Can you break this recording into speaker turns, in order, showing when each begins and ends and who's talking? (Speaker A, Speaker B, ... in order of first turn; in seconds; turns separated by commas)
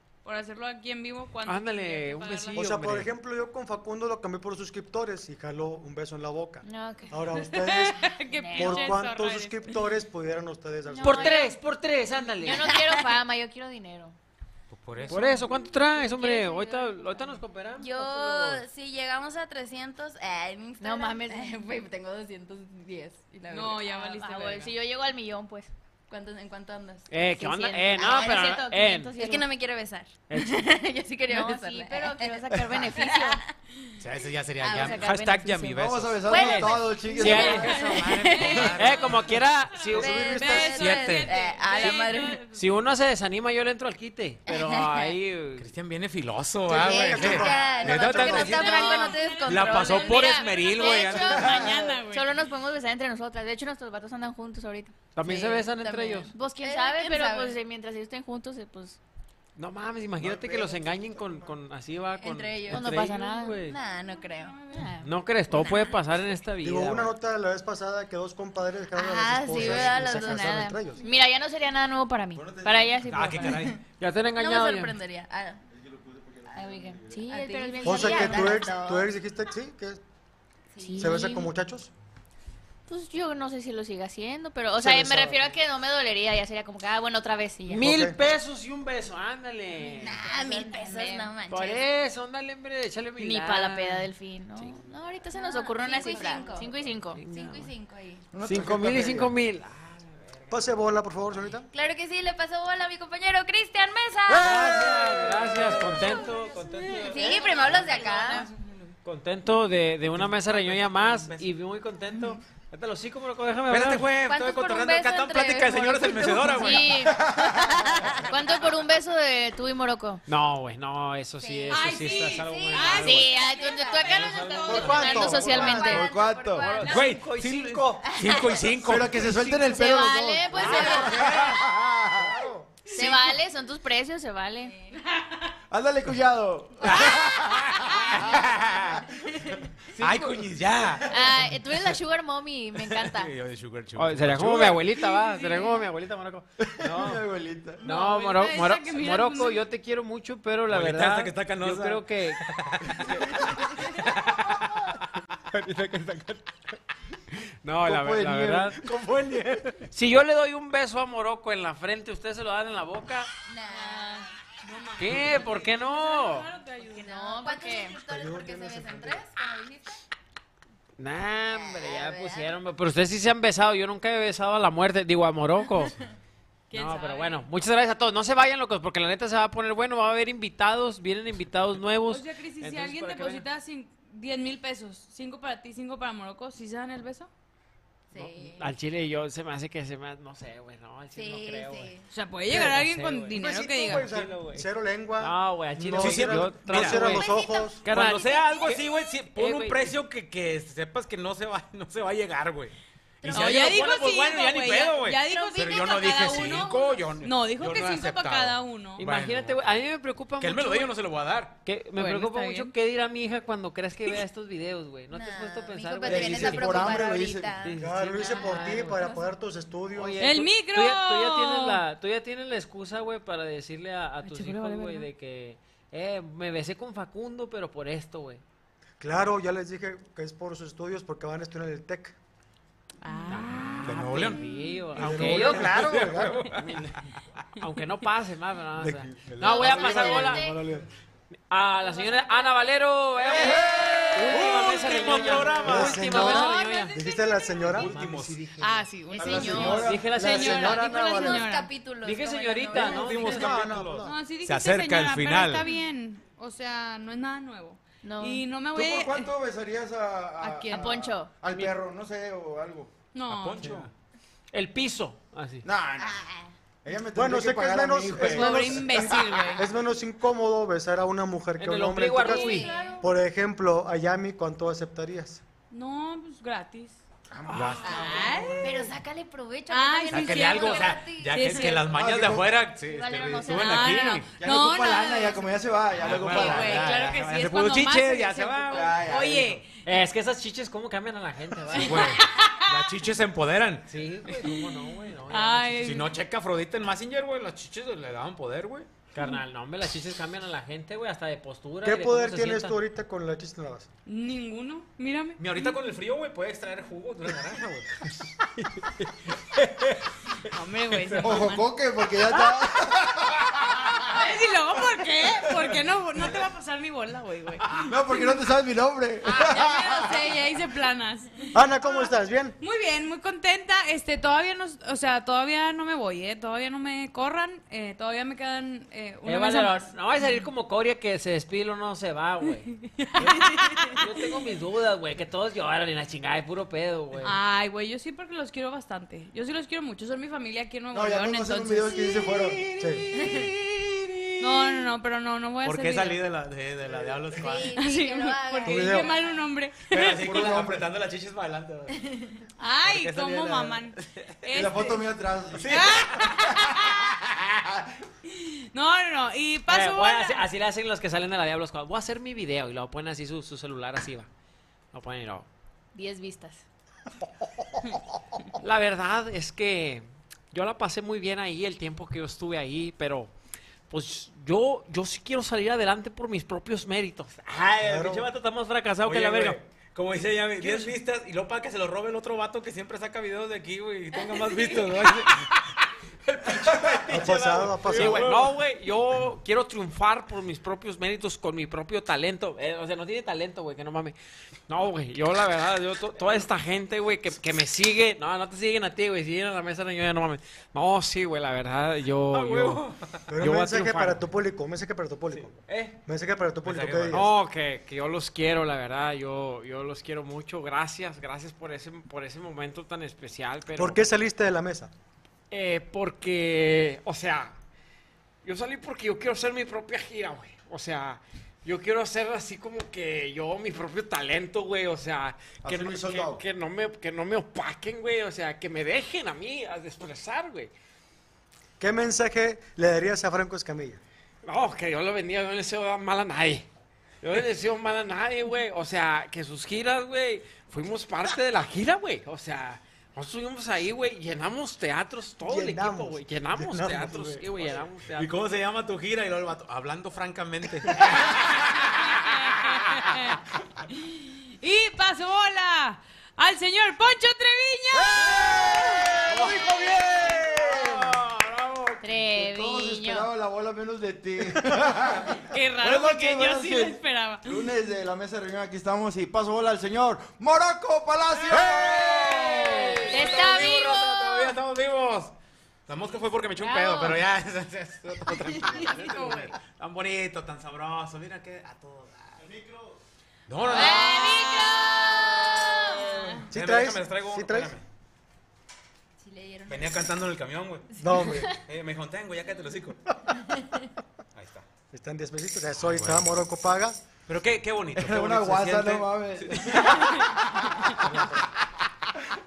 Speaker A: 0.2-2.6, Speaker B: 1.4-3.1, Speaker C: 2.5-11.4, Speaker D: 6.6-7.2, Speaker A: 7.3-9.8, Speaker D: 8.3-9.0, Speaker D: 11.0-11.6, Speaker E: 11.0-11.5, Speaker B: 11.0-12.7, Speaker D: 12.4-14.2, Speaker F: 14.7-15.2, Speaker B: 15.1-18.5, Speaker A: 15.1-15.4, Speaker D: 15.9-17.4, Speaker E: 17.8-24.3, Speaker D: 18.0-18.6, Speaker D: 20.8-21.8, Speaker A: 23.5-24.7, Speaker D: 24.1-25.7, Speaker E: 26.1-33.5, Speaker B: 27.1-29.1, Speaker D: 27.4-29.5, Speaker B: 30.3-30.6, Speaker D: 31.3-33.4, Speaker F: 34.0-36.4, Speaker E: 34.6-35.4, Speaker D: 34.7-35.6, Speaker G: 35.7-37.7, Speaker E: 36.3-38.8, Speaker B: 36.3-37.8, Speaker D: 37.2-38.5, Speaker F: 37.5-39.4, Speaker A: 37.5-42.5, Speaker B: 38.5-40.3, Speaker C: 39.8-40.8, Speaker E: 39.9-42.4, Speaker F: 40.7-41.3, Speaker B: 42.5-45.7, Speaker E: 44.5-45.1, Speaker F: 45.6-51.5, Speaker C: 46.7-48.6, Speaker E: 46.7-52.0, Speaker A: 47.8-52.3, Speaker B: 47.8-49.1, Speaker G: 51.2-51.9, Speaker D: 52.0-55.4, Speaker B: 55.1-56.3, Speaker E: 55.2-57.6, Speaker D: 56.3-59.0, Speaker B: 59.6-63.8, Speaker G: 60.2-61.6, Speaker E: 62.2-63.1, Speaker D: 62.7-63.6, Speaker E: 63.6-64.7, Speaker A: 64.1-64.8, Speaker D: 64.7-65.1, Speaker B: 65.0-67.1, Speaker C: 66.6-71.0, Speaker E: 68.9-70.8, Speaker D: 69.5-73.7, Speaker G: 72.3-73.1, Speaker F: 73.0-73.8, Speaker E: 73.4-73.8, Speaker B: 74.0-74.9, Speaker E: 74.3-75.6, Speaker G: 75.7-77.3, Speaker D: 76.5-78.9, Speaker E: 77.3-79.1, Speaker C: 77.8-80.0, Speaker E: 80.7-81.4, Speaker D: 80.8-81.5, Speaker C: 81.0-81.9, Speaker D: 82.9-87.9, Speaker C: 84.8-85.4, Speaker B: 87.7-90.2, Speaker C: 87.8-88.2, Speaker E: 90.0-91.8, Speaker D: 90.3-91.3, Speaker B: 91.5-94.0, Speaker D: 93.2-97.2, Speaker E: 95.3-96.7, Speaker B: 97.1-97.7, Speaker E: 97.3-98.2, Speaker G: 98.3-99.3, Speaker B: 98.4-100.6, Speaker C: 100.5-101.7, Speaker E: 101.7-106.1, Speaker G: 104.4-105.8, Speaker B: 104.4-107.9, Speaker E: 107.1-108.5, Speaker D: 107.1-108.4, Speaker B: 109.0-114.1, Speaker F: 110.2-111.5, Speaker F: 113.7-117.1, Speaker E: 114.1-118.3, Speaker D: 116.6-117.2, Speaker G: 117.0-118.0, Speaker D: 118.2-120.2, Speaker B: 120.2-123.3, Speaker E: 121.4-127.3, Speaker A: 121.7-125.4, Speaker D: 123.0-126.1, Speaker B: 124.0-126.0, Speaker C: 124.7-126.0, Speaker G: 125.5-126.8, Speaker B: 126.6-128.1, Speaker F: 126.8-129.5, Speaker E: 128.1-128.7, Speaker G: 128.7-132.4, Speaker D: 129.5-131.5, Speaker E: 129.8-131.6, Speaker C: 132.1-132.8, Speaker D: 132.9-134.7, Speaker E: 132.9-133.3, Speaker G: 135.7-138.0, Speaker F: 138.3-139.0, Speaker F: 139.9-141.5, Speaker D: 141.1-143.3, Speaker F: 142.9-144.8, Speaker B: 143.9-147.2, Speaker A: 145.0-145.8, Speaker G: 146.6-147.8, Speaker A: 147.8-149.7, Speaker B: 147.8-153.4, Speaker F: 150.7-154.8, Speaker B: 155.5-156.4, Speaker B: 157.6-158.8, Speaker G: 157.8-159.0, Speaker F: 158.9-159.8, Speaker B: 159.8-163.3, Speaker E: 163.5-164.3, Speaker A: 163.7-167.5, Speaker B: 165.0-166.5, Speaker E: 166.9-170.0, Speaker D: 167.1-168.0, Speaker C: 168.0-169.2, Speaker B: 171.0-175.9, Speaker E: 171.5-172.5, Speaker A: 176.7-177.4, Speaker B: 176.7-183.4, Speaker A: 182.1-187.3, Speaker E: 188.1-188.7, Speaker B: 188.2-191.9, Speaker E: 191.1-192.1, Speaker A: 192.1-194.1, Speaker B: 192.5-194.7, Speaker C: 193.3-197.8, Speaker B: 195.2-197.3, Speaker F: 195.8-197.2, Speaker E: 197.0-198.8, Speaker B: 197.8-198.7, Speaker F: 197.8-209.7, Speaker A: 197.9-198.3, Speaker B: 199.3-199.9, Speaker E: 203.2-204.1, Speaker A: 203.3-209.0, Speaker E: 205.2-206.5, Speaker B: 209.0-210.9, Speaker F: 210.4-211.6, Speaker B: 211.6-216.9, Speaker A: 211.9-212.7, Speaker E: 215.1-218.8, Speaker G: 216.0-217.8, Speaker B: 217.6-219.0, Speaker C: 217.8-220.3, Speaker A: 218.2-218.7, Speaker B: 219.9-228.4, Speaker A: 220.2-221.8, Speaker A: 224.2-225.1, Speaker C: 229.0-232.2, Speaker A: 233.0-233.9, Speaker B: 233.2-236.1, Speaker F: 233.8-234.4, Speaker C: 234.9-236.5, Speaker F: 234.9-236.8, Speaker B: 237.6-240.5, Speaker C: 238.8-240.9, Speaker F: 239.2-239.7, Speaker D: 239.5-240.5, Speaker E: 239.6-240.5, Speaker B: 241.5-246.9, Speaker A: 241.9-242.4, Speaker G: 243.3-245.8, Speaker F: 244.2-246.2, Speaker A: 244.4-247.9, Speaker C: 245.6-247.9, Speaker F: 247.7-248.7, Speaker A: 248.5-251.7, Speaker E: 249.1-253.5, Speaker G: 249.2-250.1, Speaker C: 249.4-251.4, Speaker B: 249.6-250.9, Speaker B: 252.0-253.7, Speaker F: 252.7-255.7, Speaker C: 253.1-254.2, Speaker A: 253.9-259.3, Speaker D: 258.0-258.4, Speaker G: 258.7-262.9, Speaker A: 260.4-260.8, Speaker D: 260.7-261.4, Speaker A: 263.1-263.8, Speaker F: 263.2-263.9, Speaker B: 264.5-265.6, Speaker G: 265.6-266.2, Speaker E: 266.0-266.5, Speaker G: 266.8-269.5, Speaker C: 267.1-275.4, Speaker A: 268.2-269.6, Speaker B: 271.6-272.7, Speaker E: 272.3-273.0, Speaker D: 272.5-272.9, Speaker A: 275.7-277.0, Speaker G: 277.3-278.8, Speaker B: 277.5-277.8, Speaker F: 277.5-278.0, Speaker A: 277.9-278.8, Speaker D: 278.6-280.9, Speaker A: 279.7-281.9, Speaker E: 279.7-281.3, Speaker F: 280.1-284.3, Speaker G: 281.8-282.7, Speaker D: 282.7-284.0, Speaker A: 283.5-285.5, Speaker G: 284.4-287.1, Speaker F: 286.0-289.1, Speaker A: 286.0-289.6, Speaker G: 288.7-289.6, Speaker B: 289.8-292.2, Speaker A: 291.6-292.9, Speaker F: 291.8-293.9, Speaker B: 293.9-295.9, Speaker A: 295.3-296.1, Speaker F: 295.8-298.9, Speaker B: 299.1-302.8, Speaker C: 301.8-303.9, Speaker A: 304.1-305.8, Speaker F: 305.4-307.9, Speaker A: 310.5-318.4, Speaker G: 311.2-313.4, Speaker G: 317.9-320.3, Speaker A: 319.2-330.4, Speaker C: 321.5-322.6, Speaker B: 329.2-337.4, Speaker A: 333.0-334.1, Speaker A: 337.2-342.4, Speaker G: 340.9-343.0, Speaker C: 342.7-343.2, Speaker A: 344.4-346.2, Speaker F: 345.6-347.8, Speaker G: 346.9-347.3, Speaker E: 347.3-349.4, Speaker A: 347.6-350.6, Speaker C: 348.6-349.1, Speaker F: 349.9-352.0, Speaker G: 350.2-350.8, Speaker E: 352.1-352.4, Speaker A: 352.6-355.1, Speaker F: 352.8-354.4, Speaker G: 354.5-355.8, Speaker F: 355.6-356.3, Speaker A: 355.6-357.0, Speaker A: 358.7-360.5, Speaker B: 359.7-364.3, Speaker B: 364.9-365.5, Speaker D: 365.9-366.6, Speaker B: 368.6-373.3, Speaker B: 373.9-379.6, Speaker C: 377.8-378.2, Speaker F: 379.0-385.7, Speaker B: 380.6-380.9, Speaker F: 386.2-388.6, Speaker C: 387.1-388.3, Speaker B: 387.9-394.1, Speaker B: 394.7-402.8, Speaker F: 402.3-403.3, Speaker C: 403.3-405.5, Speaker B: 403.4-404.2, Speaker B: 405.7-405.9, Speaker C: 406.1-407.3, Speaker F: 406.6-407.2, Speaker B: 407.1-414.0, Speaker C: 413.8-414.9, Speaker B: 415.5-417.5, Speaker B: 418.4-430.7, Speaker G: 425.6-426.4, Speaker C: 431.8-434.0, Speaker B: 434.4-436.7, Speaker B: 437.2-448.3, Speaker C: 445.4-447.8, Speaker F: 448.1-453.0, Speaker A: 451.9-453.4, Speaker A: 454.1-459.1, Speaker G: 458.2-461.2, Speaker F: 459.2-462.2, Speaker D: 462.0-463.3, Speaker G: 462.2-473.1, Speaker A: 465.4-467.6, Speaker F: 471.5-475.3, Speaker D: 473.1-474.3, Speaker F: 475.9-482.5, Speaker D: 476.6-477.2, Speaker A: 478.9-479.5, Speaker F: 483.5-484.3, Speaker D: 483.7-485.8, Speaker A: 483.7-486.5, Speaker E: 485.3-485.6, Speaker C: 486.5-487.7, Speaker F: 486.5-487.8, Speaker E: 489.2-490.2, Speaker F: 489.7-490.9, Speaker E: 490.9-491.6, Speaker C: 491.0-491.6, Speaker F: 491.6-493.0, Speaker E: 493.6-493.8, Speaker F: 494.3-494.6, Speaker C: 494.9-497.0, Speaker F: 495.8-496.2, Speaker F: 497.2-501.4, Speaker G: 497.9-499.9